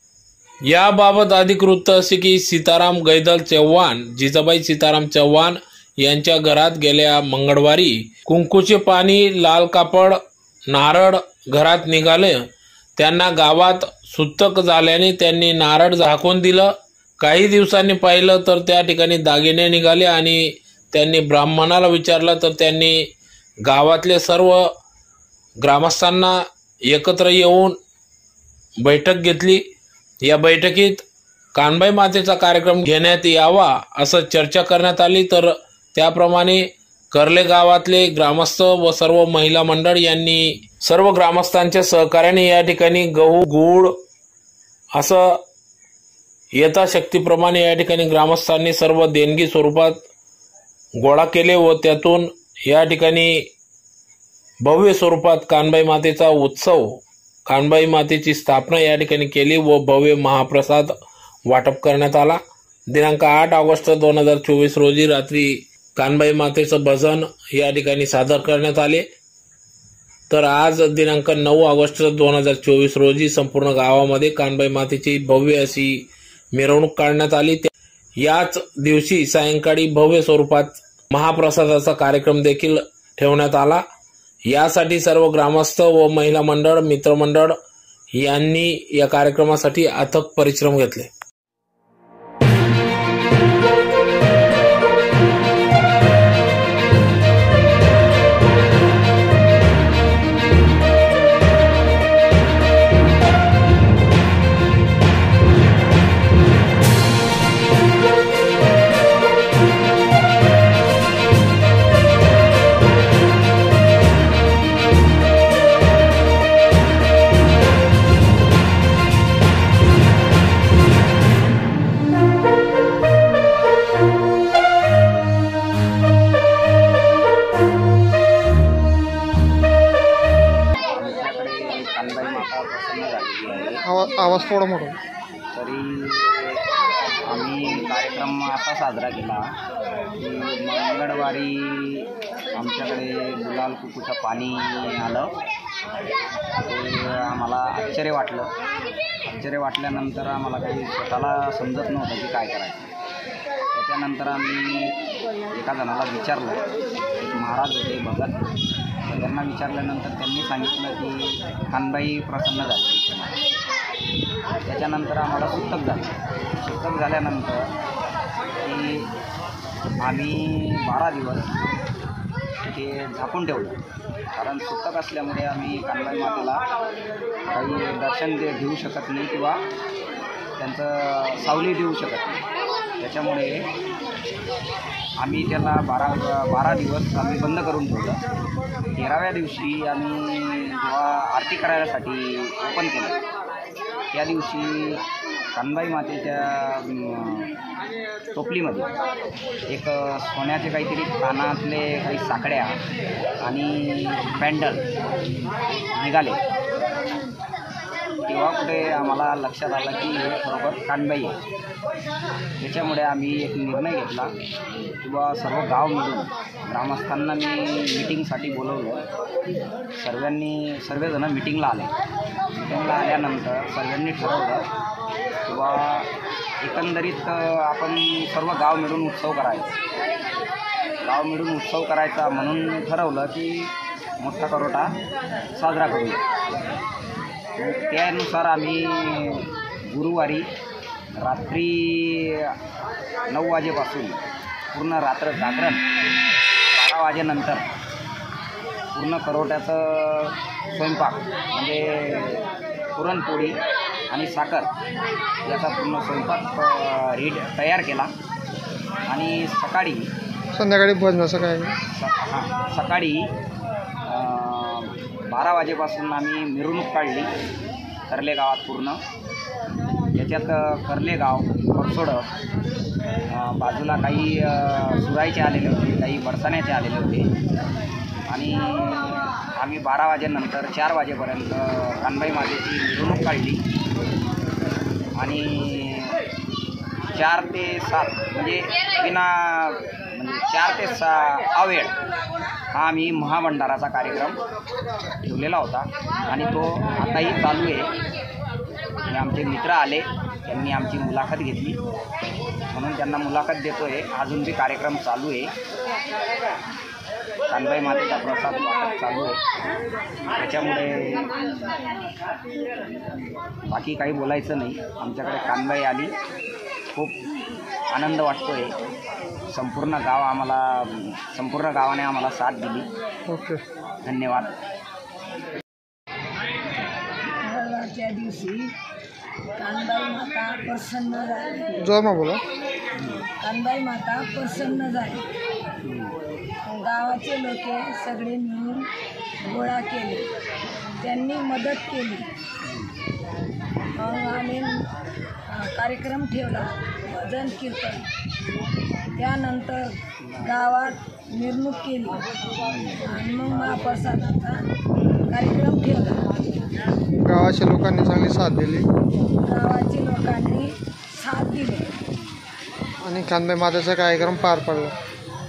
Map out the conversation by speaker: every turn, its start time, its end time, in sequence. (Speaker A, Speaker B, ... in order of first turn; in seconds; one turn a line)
Speaker A: 0.7-10.2
Speaker A: 10.7-12.4
Speaker A: 13.0-23.0
Speaker A: 23.6-24.6
Speaker A: 25.6-26.3
Speaker A: 26.9-27.8
Speaker A: 28.8-29.6
Speaker A: 30.2-43.9
Speaker A: 44.9-45.4
Speaker A: 46.5-50.0
Speaker A: 51.0-53.3
Speaker A: 54.6-60.9
Speaker A: 61.5-69.1
Speaker A: 70.3-77.7
Speaker A: 78.2-83.8
Speaker A: 84.5-87.5
Speaker A: 88.2-91.1
Speaker B: 130.9-133.8
Speaker C: 133.8-135.0
Speaker B: 135.5-136.6
Speaker B: 137.2-139.5
Speaker B: 140.2-145.3
Speaker B: 146.6-148.5
Speaker B: 149.2-152.9
Speaker B: 153.7-155.0
Speaker B: 155.5-156.6
Speaker B: 157.2-158.4
Speaker B: 159.1-163.4
Speaker B: 164.7-166.1
Speaker B: 166.6-167.7
Speaker B: 168.6-169.1
Speaker B: 170.0-171.5
Speaker B: 172.6-173.8
Speaker B: 174.3-176.6
Speaker B: 177.5-179.6
Speaker B: 180.6-182.4
Speaker B: 183.0-183.7
Speaker B: 185.2-188.2
Speaker B: 188.9-193.2
Speaker B: 194.1-197.5
Speaker B: 198.3-198.9
Speaker B: 199.7-202.7
Speaker B: 203.4-204.8
Speaker B: 205.9-206.4
Speaker B: 208.2-211.4
Speaker B: 212.6-214.3
Speaker B: 215.0-219.0
Speaker B: 220.0-221.9
Speaker B: 222.6-224.6
Speaker B: 225.4-226.1
Speaker B: 226.6-229.8
Speaker B: 231.0-234.9
Speaker B: 235.5-236.2
Speaker B: 237.6-240.5
Speaker B: 241.2-242.5
Speaker B: 243.3-244.2
Speaker B: 244.7-245.8
Speaker B: 246.7-247.6
Speaker B: 248.9-253.6
Speaker B: 254.1-254.7
Speaker B: 255.4-258.1
Speaker B: 259.1-260.1
Speaker C: 260.5-261.8
Speaker B: 261.9-263.3
Speaker B: 264.1-267.3
Speaker B: 268.1-269.0
Speaker B: 270.1-272.2
Speaker B: 273.3-277.3
Speaker B: 278.3-283.6
Speaker B: 285.1-286.2
Speaker B: 287.1-291.9
Speaker B: 292.7-294.4
Speaker B: 295.2-297.9
Speaker B: 299.1-301.8
Speaker B: 302.7-305.5
Speaker B: 307.5-309.4
Speaker B: 310.3-311.3
Speaker B: 313.7-316.1
Speaker B: 317.9-318.8
Speaker B: 319.5-322.9
Speaker C: 323.3-323.6
Speaker B: 324.0-324.5
Speaker D: 327.4-328.7
Speaker D: 329.6-331.9
Speaker C: 331.8-332.4
Speaker B: 332.9-333.2
Speaker D: 333.4-335.3
Speaker B: 335.8-336.1
Speaker D: 336.6-338.9
Speaker D: 339.4-340.3
Speaker D: 341.0-342.3
Speaker D: 343.9-344.9
Speaker D: 345.5-348.1
Speaker D: 349.1-352.2
Speaker B: 352.6-353.0
Speaker D: 353.0-354.6
Speaker D: 355.3-356.2
Speaker C: 357.1-358.9
Speaker D: 359.4-361.9
Speaker C: 363.0-365.0